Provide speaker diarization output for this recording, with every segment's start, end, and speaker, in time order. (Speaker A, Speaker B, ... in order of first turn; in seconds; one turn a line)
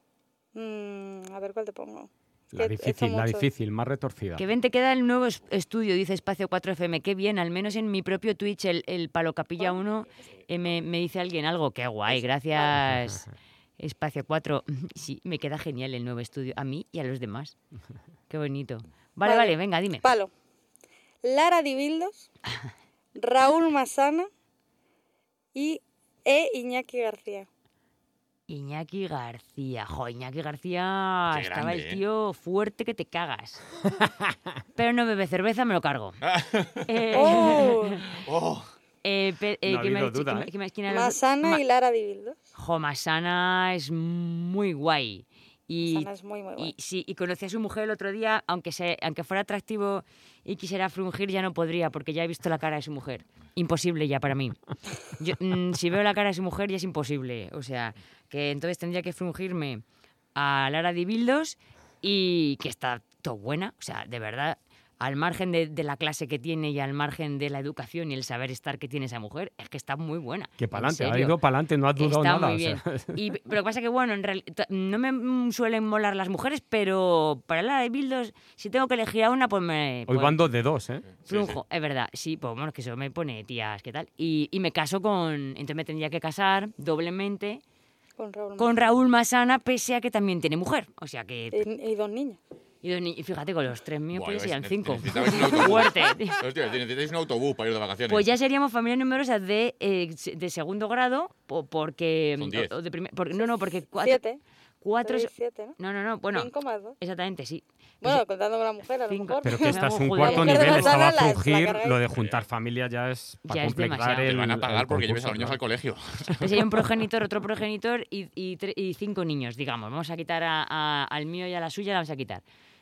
Speaker A: 0.5-3.5
Speaker B: 2.5-4.4
Speaker C: 4.4-13.3
Speaker A: 12.1-12.8
Speaker C: 13.8-17.6
Speaker C: 18.3-20.1
Speaker A: 19.2-20.3
Speaker A: 21.2-22.3
Speaker A: 23.1-24.3
Speaker A: 25.5-27.5
Speaker C: 28.5-33.6
Speaker D: 31.3-32.0
Speaker B: 34.0-34.3
Speaker C: 34.7-36.2
Speaker D: 36.2-36.9
Speaker C: 36.8-38.0
Speaker A: 37.1-38.0
Speaker D: 38.1-38.7
Speaker C: 39.0-41.6
Speaker B: 39.6-40.5
Speaker A: 40.9-42.4
Speaker C: 42.5-59.8
Speaker A: 45.8-46.7
Speaker C: 60.3-71.4
Speaker B: 70.6-73.2
Speaker C: 72.0-80.4
Speaker B: 80.1-81.1
Speaker D: 81.2-81.6
Speaker C: 81.2-87.6
Speaker A: 88.2-88.9
Speaker C: 88.6-91.6
Speaker A: 91.5-92.4
Speaker C: 92.8-96.4
Speaker D: 94.1-98.2
Speaker C: 98.1-104.2
Speaker D: 102.4-102.7
Speaker A: 103.4-104.4
Speaker C: 104.8-108.2
Speaker A: 105.0-105.8
Speaker A: 106.3-107.0
Speaker A: 108.0-112.0
Speaker C: 109.1-111.0
Speaker B: 109.4-115.6
Speaker D: 112.1-112.4
Speaker C: 113.4-114.3
Speaker D: 114.2-116.6
Speaker C: 116.4-122.4